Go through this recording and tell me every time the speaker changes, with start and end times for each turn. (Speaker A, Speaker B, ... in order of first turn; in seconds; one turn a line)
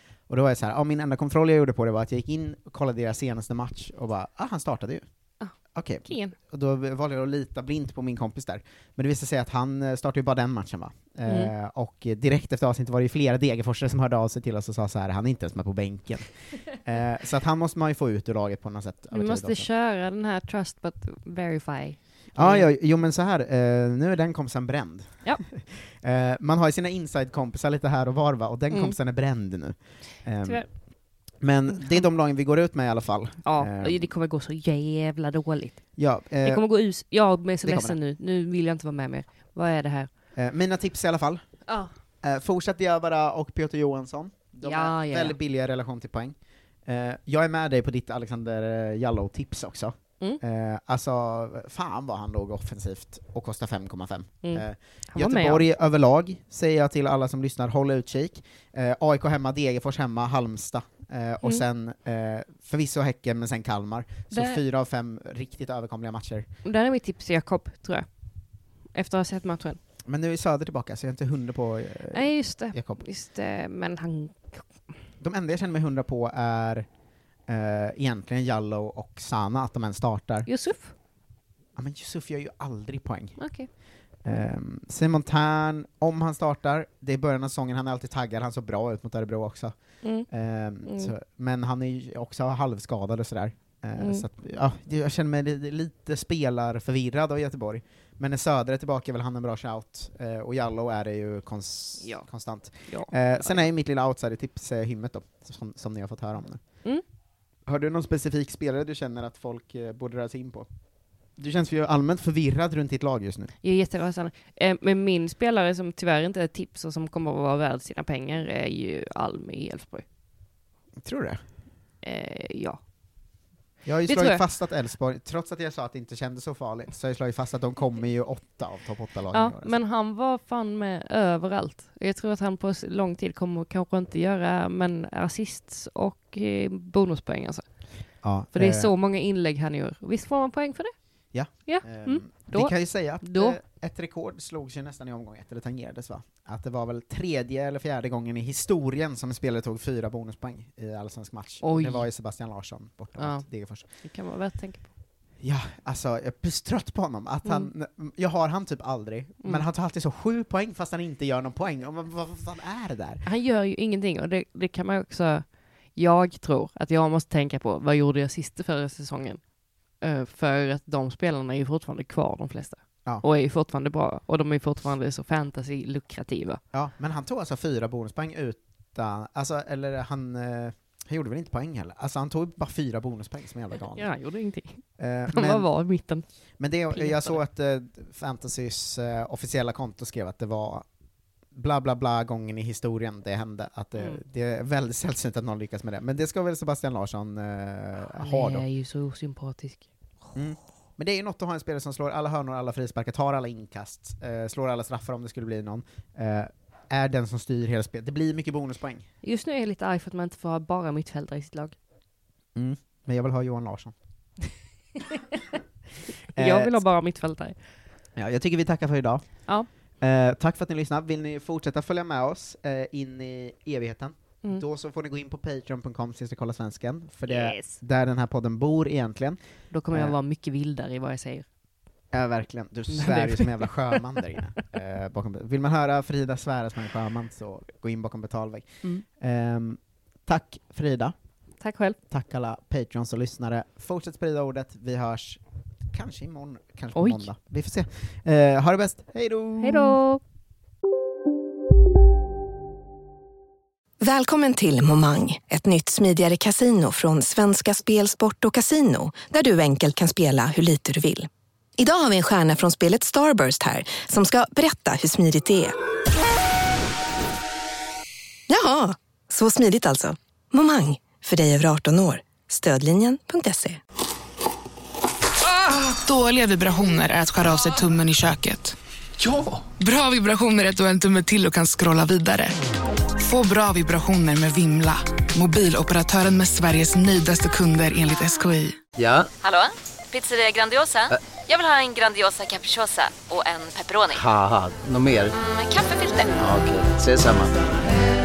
Speaker A: 0.2-19.7
Speaker B: 5.4-6.3
Speaker B: 11.2-11.5
Speaker B: 19.1-22.7
Speaker A: 22.3-34.1
Speaker B: 28.7-29.0
Speaker B: 30.4-32.1
Speaker B: 33.4-40.1
Speaker A: 36.0-36.7
Speaker A: 37.6-38.0
Speaker A: 40.3-66.5
Speaker B: 41.7-41.9
Speaker B: 44.6-45.4
Speaker B: 54.4-55.6
Speaker B: 64.3-64.6
Speaker B: 66.6-69.8
Speaker A: 70.0-73.1
Speaker B: 72.1-74.9
Speaker A: 75.2-76.9
Speaker A: 77.5-80.5
Speaker B: 80.5-80.9
Speaker A: 81.7-106.9
Speaker B: 83.4-83.7
Speaker B: 90.0-90.3
Speaker B: 90.8-91.1
Speaker B: 94.0-94.2
Speaker B: 102.0-103.6
Speaker A: 107.6-110.7
Speaker A: 111.2-113.5
Speaker B: 113.6-120.0
Speaker A: 121.0-121.4
Speaker B: 122.0-122.8
Speaker A: 123.8-129.8
Speaker B: 124.1-124.4
Speaker B: 129.3-143.6
Speaker A: 138.2-138.9
Speaker A: 141.3-153.9
Speaker B: 151.6-152.1
Speaker B: 153.2-154.9
Speaker A: 155.4-163.2
Speaker B: 157.4-157.7
Speaker B: 163.2-176.6
Speaker A: 176.7-184.1
Speaker B: 183.9-187.4
Speaker A: 184.8-190.9
Speaker A: 191.5-198.7
Speaker B: 193.9-194.2
Speaker B: 198.2-200.4
Speaker A: 200.3-209.1
Speaker B: 209.2-211.8
Speaker A: 212.5-213.9
Speaker A: 216.3-216.8
Speaker B: 216.3-217.6
Speaker A: 218.2-230.1
Speaker B: 227.3-227.8
Speaker B: 229.7-231.5
Speaker A: 232.1-241.2
Speaker B: 232.9-234.2
Speaker B: 241.6-242.0
Speaker A: 242.1-250.0
Speaker B: 246.9-247.3
Speaker B: 249.6-250.2
Speaker C: 254.0-265.7
Speaker C: 268.5-273.8
Speaker D: 275.4-282.6
Speaker D: 283.2-288.8
Speaker E: 288.9-289.3
Speaker F: 289.4-294.2
Speaker E: 294.1-295.3
Speaker F: 295.4-296.4
Speaker E: 296.4-297.7